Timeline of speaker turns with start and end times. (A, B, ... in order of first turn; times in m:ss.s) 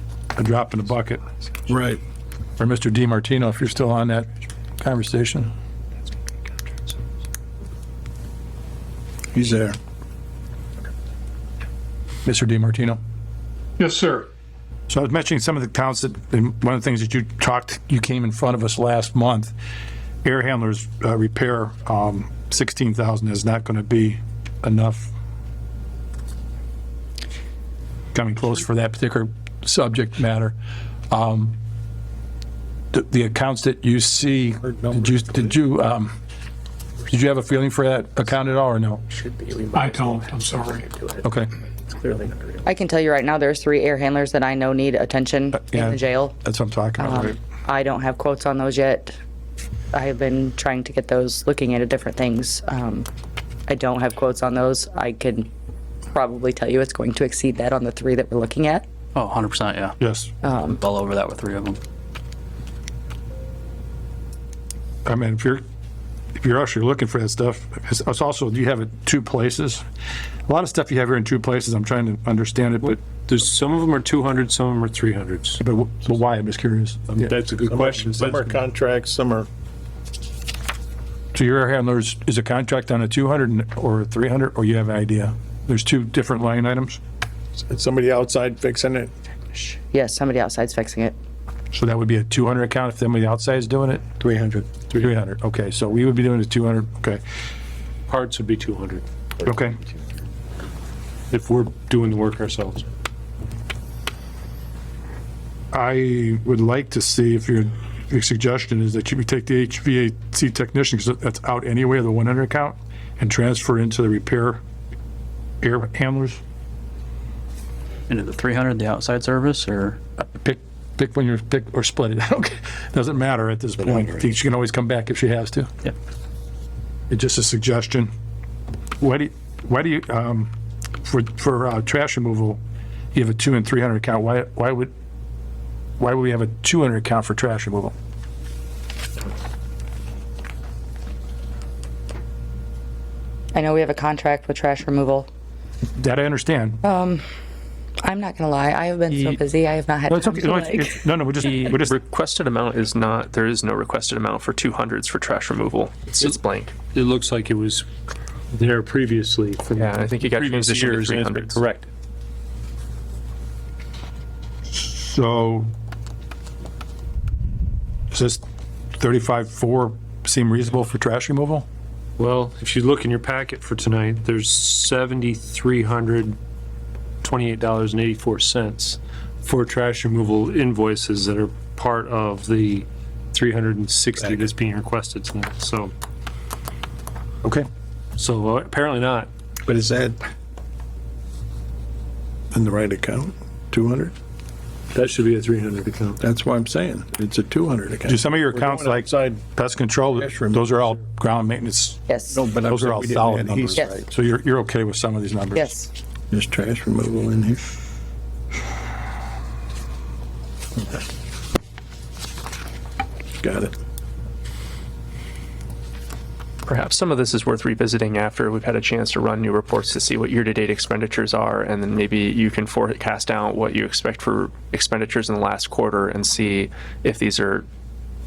0:00.3-0:01.2 A
0:01.7-0:02.0 B
0:02.6-0:04.3 A
0:04.8-0:05.5 A
0:09.3-0:09.8 B
0:12.2-0:13.0 A
0:14.9-0:19.5 A
0:20.2-0:25.1 A
0:28.1-0:30.6 A
0:31.1-0:31.6 A
0:32.9-0:36.1 A
0:37.1-0:39.0 A
0:39.1-0:41.2 C
0:41.2-0:41.5 A
0:42.0-0:42.5 C
0:42.6-0:46.4 D
0:45.5-0:47.4 A
0:47.0-0:49.2 D
0:49.9-0:53.1 D
0:53.7-0:55.5 D
0:56.1-0:58.8 D
0:59.2-1:00.0 E
1:00.0-1:00.3 A
1:00.4-1:00.8 D
1:00.7-1:01.8 E
1:05.0-1:05.6 A
1:06.3-1:09.8 A
1:10.5-1:13.0 A
1:12.8-1:15.6 F
1:15.6-1:17.3 A
1:17.2-1:18.6 F
1:17.7-1:19.5 B
1:21.3-1:27.0 A
1:27.6-1:29.1 B
1:29.9-1:31.2 D
1:31.7-1:34.1 A
1:34.2-1:34.8 B
1:35.0-1:37.2 A
1:38.1-1:39.0 F
1:39.4-1:39.8 A
1:41.3-1:42.9 F
1:45.7-1:54.6 A
1:55.6-1:56.4 A
1:58.1-2:00.0 E
2:00.2-2:05.7 A
2:07.1-2:08.1 A
2:09.0-2:10.5 A
2:11.0-2:12.6 A
2:13.1-2:14.9 A
2:16.0-2:17.9 A
2:23.5-2:25.3 D
2:26.0-2:26.8 A
2:26.8-2:27.2 D
2:28.0-2:31.0 D
2:30.1-2:32.0 A
2:31.4-2:36.8 G
2:36.2-2:37.8 F
2:38.5-2:41.9 F
2:39.8-2:41.6 G
2:44.7-2:45.7 A
2:48.1-2:48.4 A
2:49.0-2:51.7 A
2:52.2-2:56.4 F
2:57.2-3:05.9 F
3:04.2-3:04.5 B
3:08.2-3:09.3 F
3:09.7-3:10.2 B
3:12.5-3:14.1 B
3:14.9-3:16.2 F
3:16.2-3:19.4 B
3:18.1-3:22.0 A
3:20.2-3:20.6 B
3:22.1-3:22.4 D
3:22.3-3:24.0 B
3:22.6-3:25.8 A
3:25.5-3:25.9 D
3:26.3-3:27.7 B
3:33.4-3:33.7 B
3:36.7-3:47.7 G